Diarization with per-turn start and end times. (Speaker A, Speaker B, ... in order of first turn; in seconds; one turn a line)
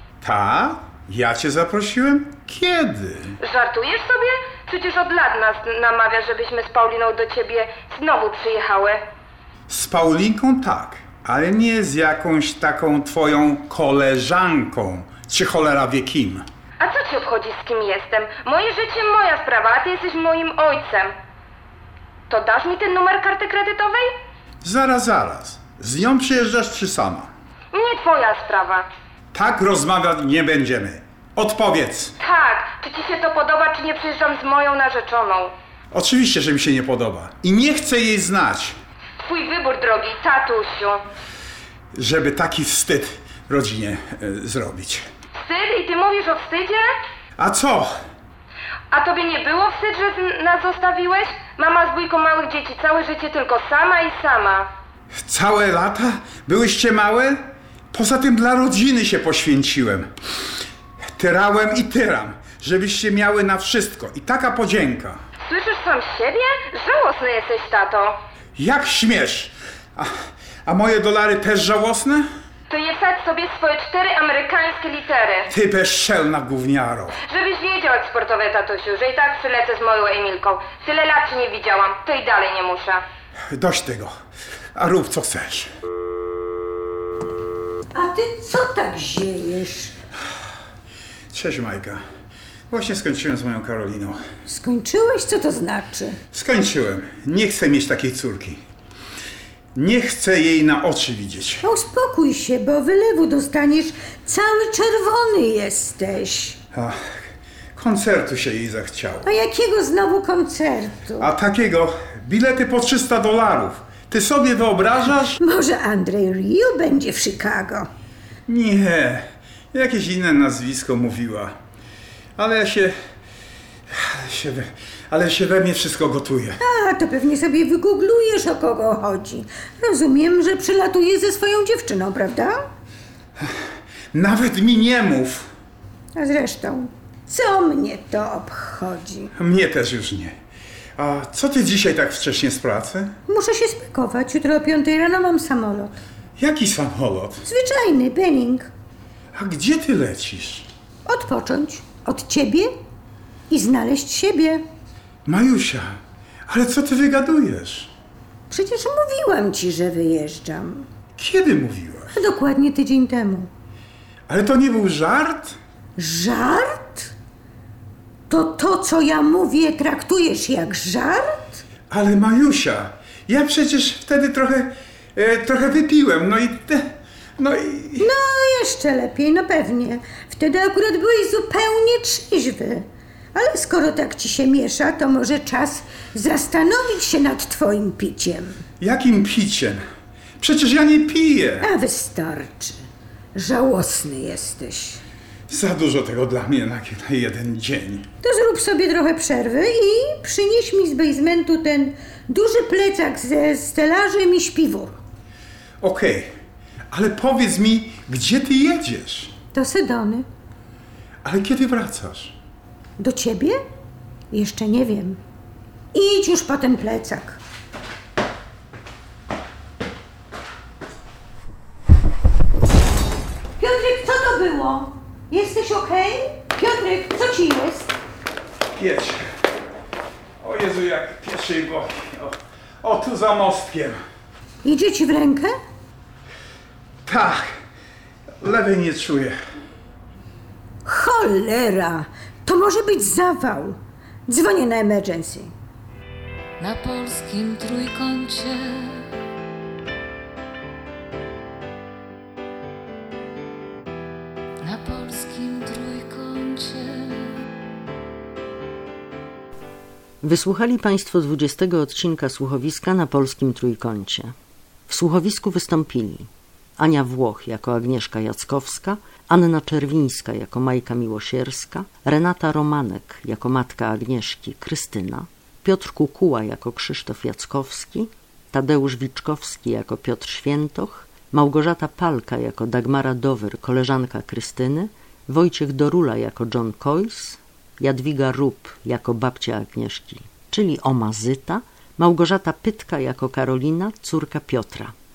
Speaker A: 0.2-3.4
Speaker B: 3.4-9.0
Speaker A: 9.7-16.4
Speaker B: 16.8-21.1
Speaker B: 22.3-24.1
Speaker A: 24.6-27.3
Speaker B: 27.7-28.9
Speaker A: 29.3-32.1
Speaker B: 32.2-35.5
Speaker A: 35.9-38.7
Speaker B: 39.2-41.0
Speaker A: 41.9-45.0
Speaker B: 45.4-46.9
Speaker A: 47.4-47.9
Speaker B: 48.9-54.7
Speaker A: 55.2-57.4
Speaker A: 57.9-60.1
Speaker A: 61.2-65.2
Speaker B: 65.4-68.2
Speaker A: 68.6-70.1
Speaker A: 70.7-72.3
Speaker B: 72.7-75.5
Speaker A: 75.5-77.2
Speaker B: 77.2-83.0
Speaker A: 83.5-84.1
Speaker A: 84.8-85.7
Speaker C: 87.9-89.9
Speaker A: 91.3-92.0
Speaker A: 92.7-94.2
Speaker C: 94.5-96.2
Speaker A: 96.3-98.6
Speaker A: 99.8-101.6
Speaker C: 101.6-106.6
Speaker A: 107.8-109.3
Speaker C: 109.2-111.3
Speaker A: 111.2-115.4
Speaker C: 115.4-117.9
Speaker A: 118.5-121.5
Speaker A: 122.4-122.9
Speaker A: 123.9-126.6
Speaker C: 126.6-132.6
Speaker A: 134.1-135.5
Speaker C: 136.2-139.3
Speaker A: 139.3-140.3
Speaker A: 141.0-143.1
Speaker C: 143.3-146.0
Speaker A: 146.4-147.4
Speaker C: 147.4-148.7
Speaker A: 149.3-150.7
Speaker C: 151.1-152.7
Speaker C: 153.5-154.6
Speaker A: 155.2-155.8
Speaker A: 156.5-157.9
Speaker C: 158.5-160.8
Speaker A: 161.2-162.2
Speaker C: 162.1-163.5
Speaker A: 164.3-165.6
Speaker C: 166.0-167.1
Speaker C: 168.3-171.6
Speaker A: 171.9-176.8
Speaker A: 177.4-178.1
Speaker C: 178.0-182.8
Speaker C: 183.3-188.6
Speaker A: 188.8-189.8
Speaker A: 190.4-191.7
Speaker C: 191.6-192.8
Speaker C: 193.3-195.0
Speaker A: 195.5-198.1
Speaker C: 198.2-204.9
Speaker A: 205.8-206.3
Speaker A: 206.9-209.3
Speaker C: 209.5-210.2
Speaker A: 211.2-212.3
Speaker C: 213.0-213.6
Speaker C: 214.3-215.2
Speaker C: 215.9-217.4
Speaker C: 223.6-227.9
Speaker A: 228.8-229.2
Speaker A: 230.4-234.0
Speaker C: 234.6-235.5
Speaker A: 237.1-237.4
Speaker A: 238.4-239.3
Speaker C: 240.8-245.5
Speaker D: 246.6-249.0
Speaker D: 254.7-257.0
Speaker E: 260.2-264.3
Speaker E: 264.9-294.9